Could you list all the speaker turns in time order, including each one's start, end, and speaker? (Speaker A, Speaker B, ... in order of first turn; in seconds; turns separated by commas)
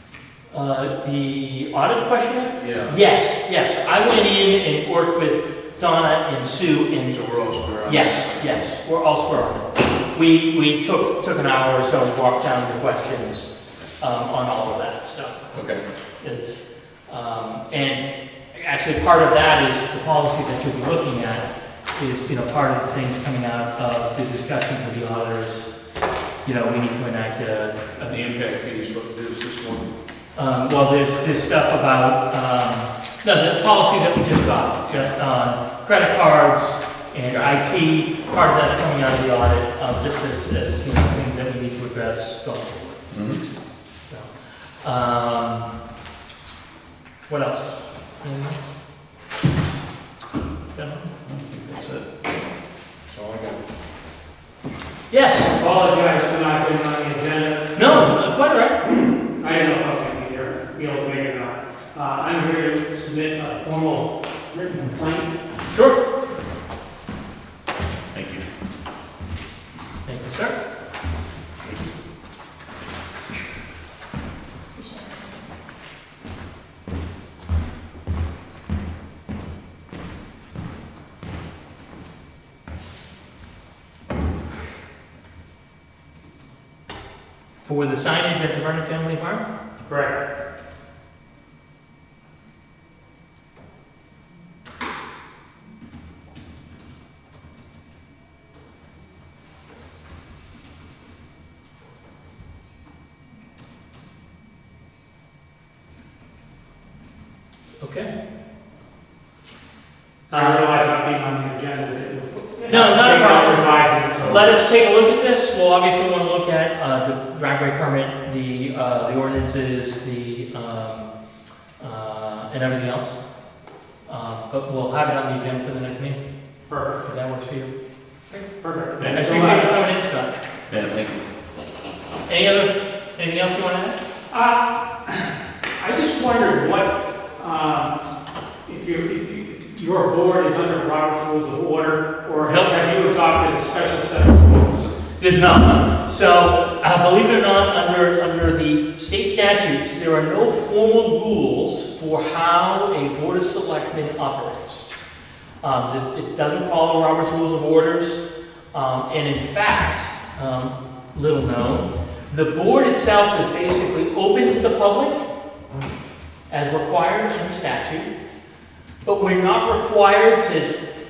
Speaker A: 0.5-25.7, Speaker B: 2.6-3.0, Speaker B: 7.1-8.4, Speaker C: 15.5-15.8, Speaker A: 26.4-28.1, Speaker B: 28.0-29.9, Speaker A: 30.4-43.0, Speaker C: 43.1-43.4, Speaker A: 44.1-45.7, Speaker A: 47.3-48.6, Speaker A: 50.7-51.1, Speaker C: 51.2-52.2, Speaker B: 53.1-53.6, Speaker A: 55.1-55.5, Speaker D: 55.5-57.8, Speaker A: 57.7-58.8, Speaker D: 59.3-65.4, Speaker A: 65.7-66.0, Speaker C: 68.1-68.4, Speaker A: 70.0-70.6, Speaker A: 87.6-89.4, Speaker D: 89.9-90.2, Speaker A: 107.8-108.1, Speaker D: 110.3-114.7, Speaker A: 110.3-110.8, Speaker A: 112.7-121.1, Speaker A: 121.8-123.2, Speaker A: 124.1-126.2, Speaker D: 126.7-127.0, Speaker A: 127.0-127.7, Speaker D: 128.3-129.8, Speaker A: 129.0-130.3, Speaker C: 130.7-131.2, Speaker A: 132.3-134.0, Speaker D: 134.3-137.9, Speaker D: 138.7-144.9, Speaker A: 142.5-142.8, Speaker A: 145.2-154.9, Speaker A: 155.6-165.2, Speaker A: 166.5-168.1, Speaker A: 169.0-170.7